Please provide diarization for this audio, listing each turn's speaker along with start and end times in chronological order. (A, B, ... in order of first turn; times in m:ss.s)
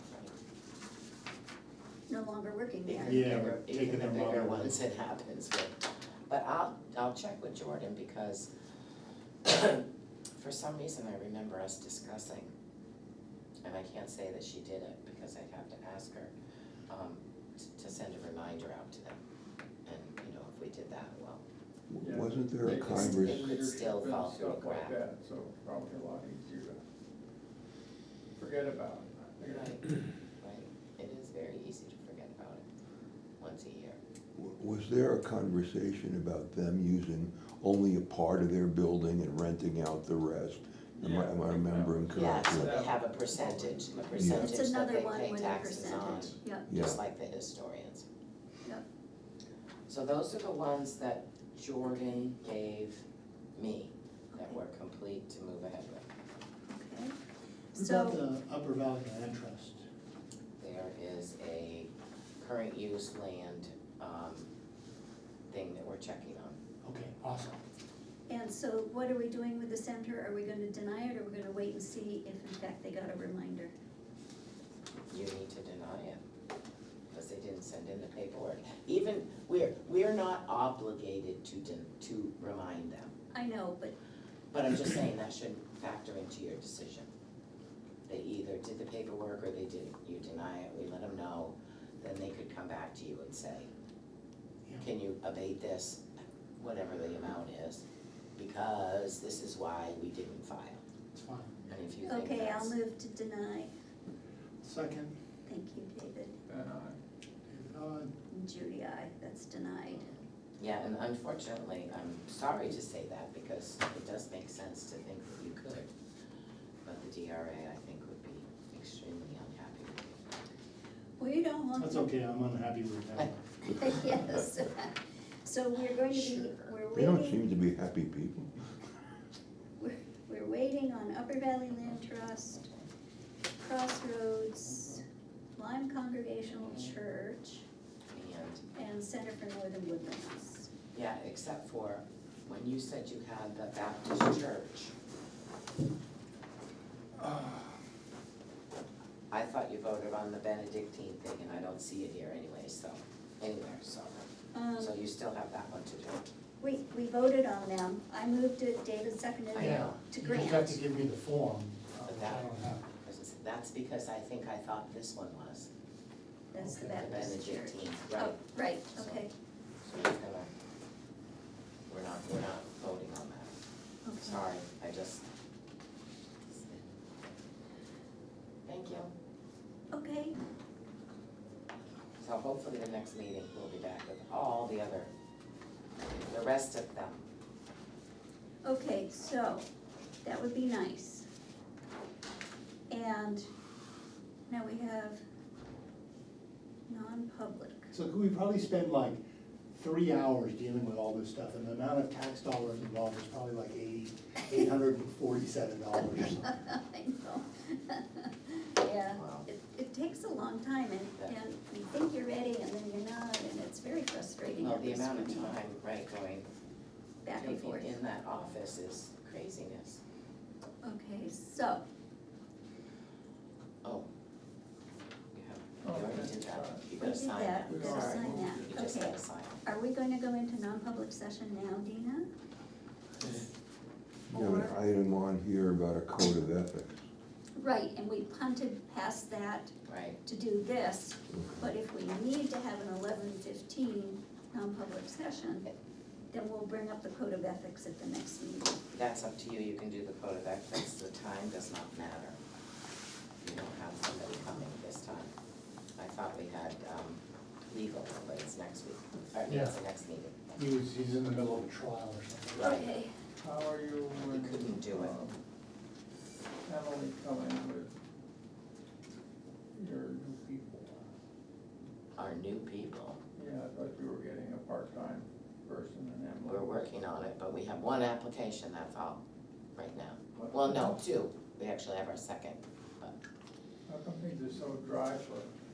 0:02.1-0:03.2 A
0:02.8-0:08.5 B
0:03.0-0:04.8 C
0:09.4-0:09.8 B
0:10.4-0:12.5 B
0:13.6-0:16.3 B
0:16.9-0:19.2 B
0:19.9-0:21.4 B
0:21.9-0:23.5 D
0:22.0-0:26.8 E
0:22.7-0:25.0 B
0:28.4-0:29.8 E
0:29.5-0:29.8 B
0:30.4-0:32.6 B
0:33.4-0:34.0 B
0:34.4-0:42.9 D
0:41.0-0:44.4 E
0:42.1-0:48.0 B
0:44.1-0:44.6 D
0:44.3-0:46.7 A
0:46.0-0:46.3 E
0:46.7-0:47.0 D
0:49.9-0:53.0 B
0:53.6-0:56.0 B
0:54.3-0:54.6 A
0:56.7-0:57.1 A
0:57.7-0:58.2 A
0:57.8-0:59.8 C
1:00.6-1:01.9 B
1:02.4-1:04.5 B
1:05.5-1:06.6 B
1:06.8-1:07.6 C
1:08.3-1:13.7 A
1:15.1-1:16.2 B
1:17.1-1:23.1 B
1:23.3-1:24.0 A
1:24.5-1:27.1 B
1:28.1-1:33.7 B
1:34.8-1:36.0 B
1:36.6-1:37.8 B
1:38.4-1:40.8 B
1:41.1-1:41.6 C
1:41.7-1:42.8 B
1:42.0-1:43.7 A
1:44.6-1:45.1 C
1:45.5-1:46.4 A
1:46.5-1:47.0 E
1:47.5-1:48.1 C
1:48.3-1:50.1 A
1:49.9-1:55.9 B
1:56.8-2:00.2 B
2:01.2-2:02.1 A
2:01.8-2:03.4 C
2:03.7-2:07.4 A
2:06.0-2:06.8 B
2:06.9-2:08.8 D
2:09.8-2:12.6 A
2:11.9-2:12.9 B
2:13.6-2:15.0 A
2:14.7-2:15.0 B
2:15.6-2:17.6 A
2:16.5-2:17.0 B
2:18.1-2:18.6 B
2:18.8-2:20.7 A
2:20.9-2:24.9 B
2:29.3-2:36.3 B
2:34.5-2:35.0 A
2:36.6-2:40.8 A
2:39.5-2:40.0 B
2:39.6-2:42.8 C
2:42.0-2:42.5 B
2:43.0-2:45.7 B
2:46.5-2:49.3 A
2:46.6-2:47.2 C
2:47.0-2:49.3 B
2:49.8-2:50.5 B
2:51.9-2:53.5 B
2:54.1-2:54.4 A
2:54.2-2:55.2 B
2:56.5-2:57.0 B
2:58.7-2:59.1 B
2:59.9-3:00.3 A
3:02.2-3:05.1 B
3:06.2-3:07.2 B
3:08.6-3:09.6 A
3:10.2-3:11.3 A
3:12.9-3:13.5 A
3:14.5-3:15.2 A
3:16.9-3:17.9 A
3:17.9-3:26.6 C
3:26.4-3:35.6 A
3:29.1-3:29.5 B
3:34.6-3:36.5 B
3:37.2-3:38.0 A
3:37.3-3:40.0 B
3:40.8-3:41.8 A
3:45.3-3:49.6 B
3:45.8-3:46.9 E
3:47.0-3:52.3 A
3:47.7-3:48.9 E
3:54.3-3:54.8 A
3:54.3-3:57.0 D
3:57.6-4:05.7 A
3:59.9-4:00.2 B
4:01.3-4:01.7 D
4:06.3-4:08.8 A
4:08.9-4:12.4 B
4:13.4-4:15.3 B
4:16.0-4:20.4 B
4:19.5-4:19.8 C
4:20.6-4:22.9 C
4:22.6-4:22.9 B
4:22.6-4:23.1 A
4:23.4-4:25.4 E
4:24.3-4:25.1 B
4:26.7-4:28.0 E
4:29.8-4:31.0 E
4:32.2-4:33.2 B
4:33.4-4:36.9 E
4:36.5-4:39.2 B
4:39.8-4:43.1 B
4:40.4-4:41.0 E
4:43.9-4:45.5 E